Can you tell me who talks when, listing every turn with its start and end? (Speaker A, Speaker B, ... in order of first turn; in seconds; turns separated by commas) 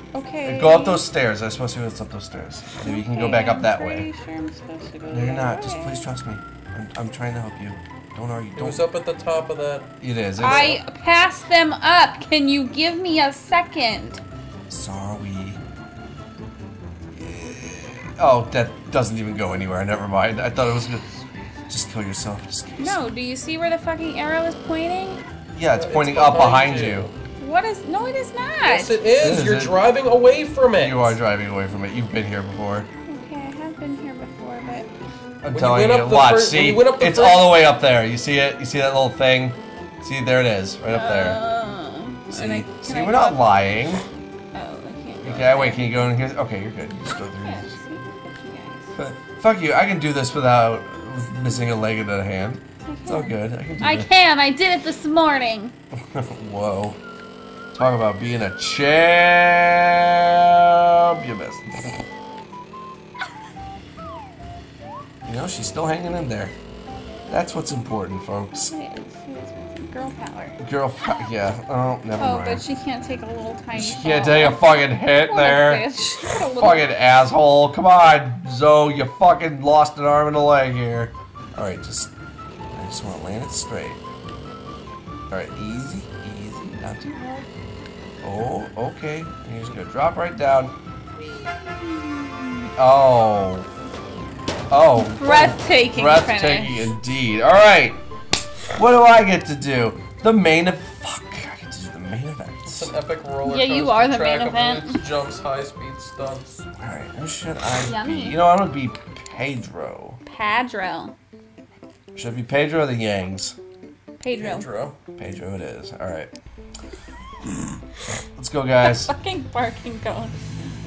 Speaker A: 0.1-1.0, Speaker B: 0.5-4.1, Speaker A: 2.8-6.0, Speaker B: 5.1-8.8, Speaker C: 8.6-9.9, Speaker B: 10.0-10.8, Speaker A: 10.4-14.2, Speaker C: 10.4-10.8, Speaker B: 14.7-15.6, Speaker B: 17.1-21.1, Speaker B: 21.7-23.0, Speaker A: 22.8-25.2, Speaker B: 25.6-27.1, Speaker C: 25.7-27.1, Speaker A: 27.4-29.0, Speaker C: 28.6-31.1, Speaker B: 29.2-29.8, Speaker B: 30.8-32.9, Speaker A: 33.1-34.9, Speaker B: 35.4-41.4, Speaker C: 35.5-37.6, Speaker A: 40.9-43.5, Speaker B: 42.3-44.0, Speaker A: 44.5-45.9, Speaker B: 45.2-47.7, Speaker A: 47.4-49.0, Speaker B: 49.0-54.1, Speaker A: 52.9-55.7, Speaker B: 56.1-57.0, Speaker B: 57.7-62.0, Speaker B: 65.2-66.5, Speaker B: 67.3-68.7, Speaker A: 68.7-70.6, Speaker B: 70.6-72.6, Speaker A: 72.2-76.9, Speaker B: 73.7-75.9, Speaker B: 76.5-82.1, Speaker B: 82.7-84.0, Speaker B: 85.3-87.5, Speaker B: 88.2-90.8, Speaker B: 91.5-93.7, Speaker B: 94.7-98.0, Speaker A: 95.0-96.9, Speaker B: 98.8-102.9, Speaker C: 102.7-106.6, Speaker A: 103.5-105.0, Speaker B: 106.8-110.2, Speaker A: 107.8-108.4, Speaker A: 110.3-111.2, Speaker B: 112.2-113.6, Speaker A: 114.2-114.7, Speaker C: 114.3-115.0, Speaker B: 115.2-116.3, Speaker B: 118.4-119.1, Speaker A: 118.8-120.3